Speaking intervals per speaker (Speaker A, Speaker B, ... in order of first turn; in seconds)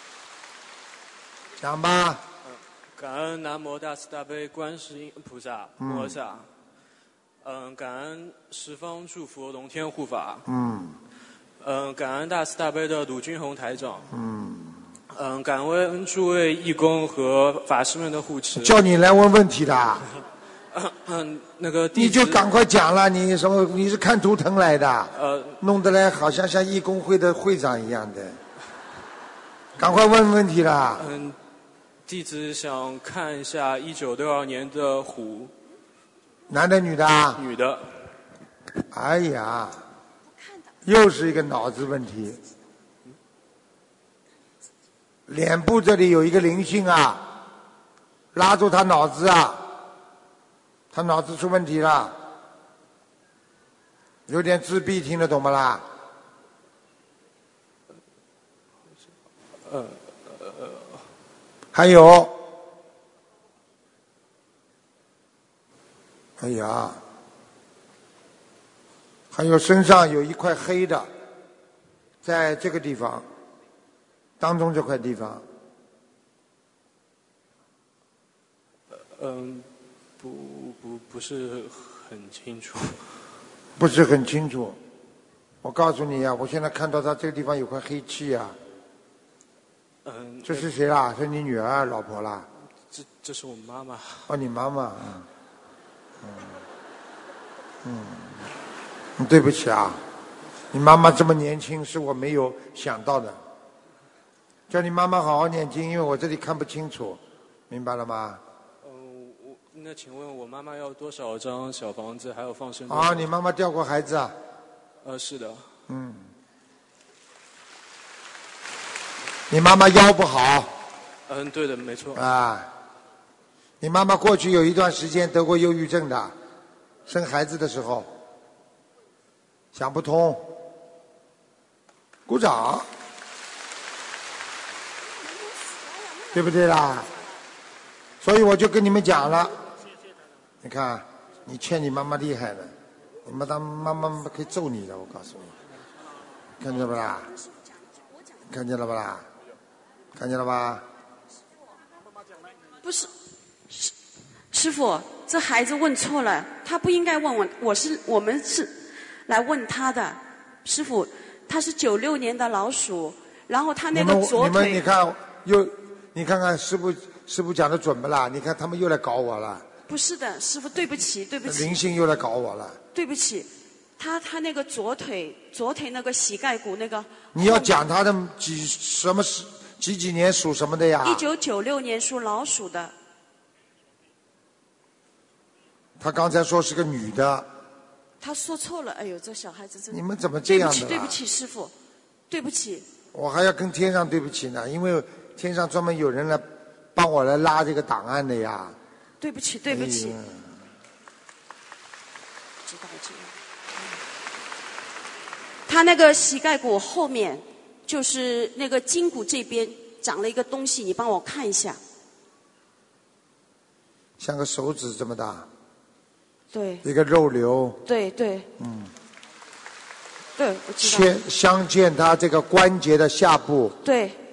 Speaker A: 1.6-2.2, 5.8-6.2, 10.4-11.0, 14.1-14.8, 18.5-20.0, 21.9-28.4, 29.8-31.1, 36.5-37.4, 38.9-39.8, 40.8-42.4, 45.3-47.2, 48.3-49.6, 50.9-52.1, 54.3-55.8, 61.7-62.4, 66.4-67.0, 69.3-71.1, 72.2-73.2, 74.4-75.4, 83.8-84.8, 85.6-88.6, 90.4-92.5, 94.3-95.2, 96.2-96.5, 97.8-98.3, 99.2-100.0, 100.7-103.4, 104.7-108.4, 112.9-114.3, 115.9-116.3, 119.5-120.7, 122.1-122.7, 123.8-126.3, 127.1-128.1, 129.7-130.5, 132.3-132.9, 136.3-137.1, 138.2-139.6, 140.6-142.7, 143.2-145.5, 146.6-147.3, 148.5-149.2, 150.1-150.8, 163.9-169.7, 171.4-172.8, 177.3-181.2, 186.0-187.5, 189.9-191.2, 193.1-198.8, 199.7-200.4, 214.2-215.5, 216.8-217.8, 218.6-218.9, 220.8-223.8
Speaker B: 2.4-6.5, 7.4-10.4, 11.6-14.1, 15.1-18.8, 20.7-22.4, 25.1-25.6, 31.0-31.4, 32.0-35.5, 37.3-37.9, 59.6-61.0, 78.9-79.7, 80.2-83.0, 90.0-90.7, 92.9-94.3, 108.8-113.3, 115.0-115.7, 121.3-122.2
Speaker C: 152.8-153.1, 154.5-158.7, 159.3-164.8, 169.9-171.8, 172.9-177.8, 181.0-182.9, 188.2-191.7, 192.3-192.8, 199.2-200.2, 202.7-203.3, 205.7-211.8, 216.5-216.8, 217.8-218.5, 220.4-221.2, 223.8-224.2